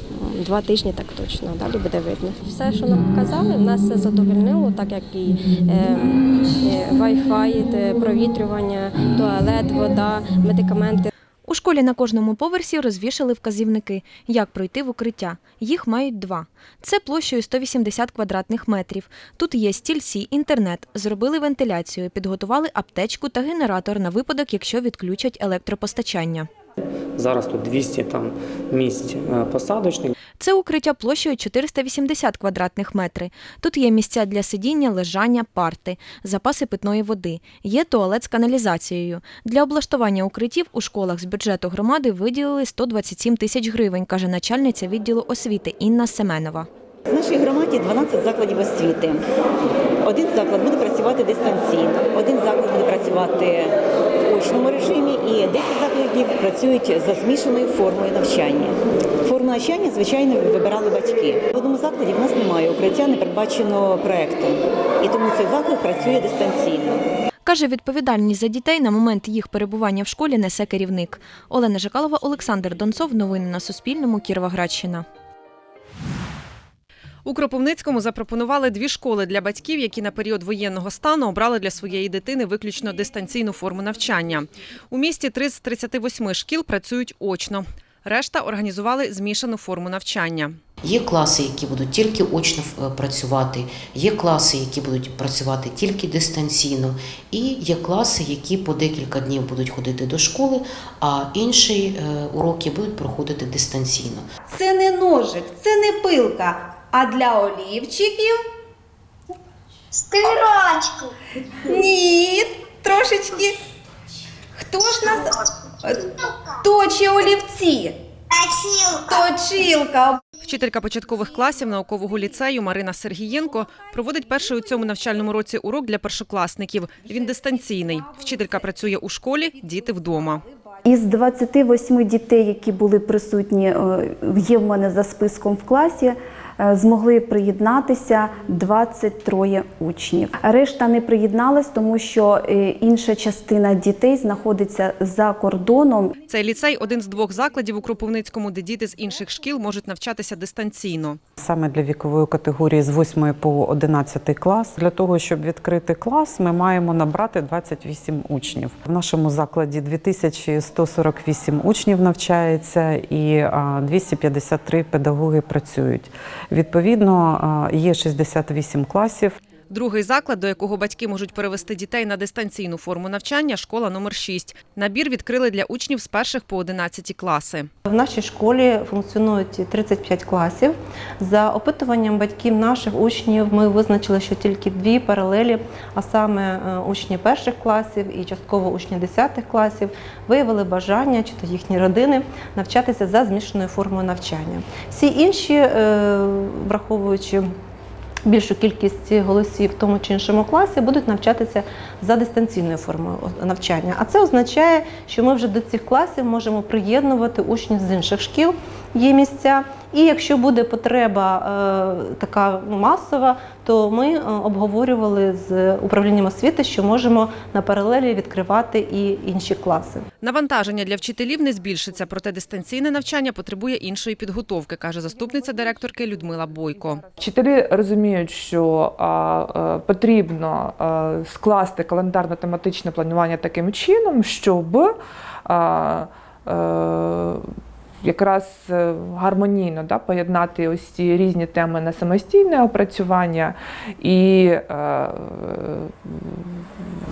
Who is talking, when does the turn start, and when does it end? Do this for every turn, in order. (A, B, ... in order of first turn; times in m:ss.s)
0:00.2-0:11.1 A
0:11.5-0:26.5 B
0:27.2-0:30.1 C
0:30.4-0:46.7 B
0:47.1-0:49.2 D
0:50.0-1:07.0 D
1:07.4-1:15.1 B
1:17.2-1:30.6 E
1:30.8-1:44.3 F
1:44.5-1:48.4 G
1:50.1-1:50.8 D
1:51.7-1:53.6 G
1:54.6-1:55.2 G
1:55.8-1:56.1 G
1:56.6-1:58.0 G
1:58.4-1:59.1 D
1:59.1-2:00.2 G
2:00.4-2:10.4 E
2:10.8-2:26.1 H
2:26.3-2:31.2 E
2:31.4-2:49.4 I
2:49.7-2:57.7 E
2:57.9-3:17.5 J
3:18.3-3:40.0 J
3:40.2-3:47.0 E
3:47.2-3:57.5 K
3:58.0-4:06.9 K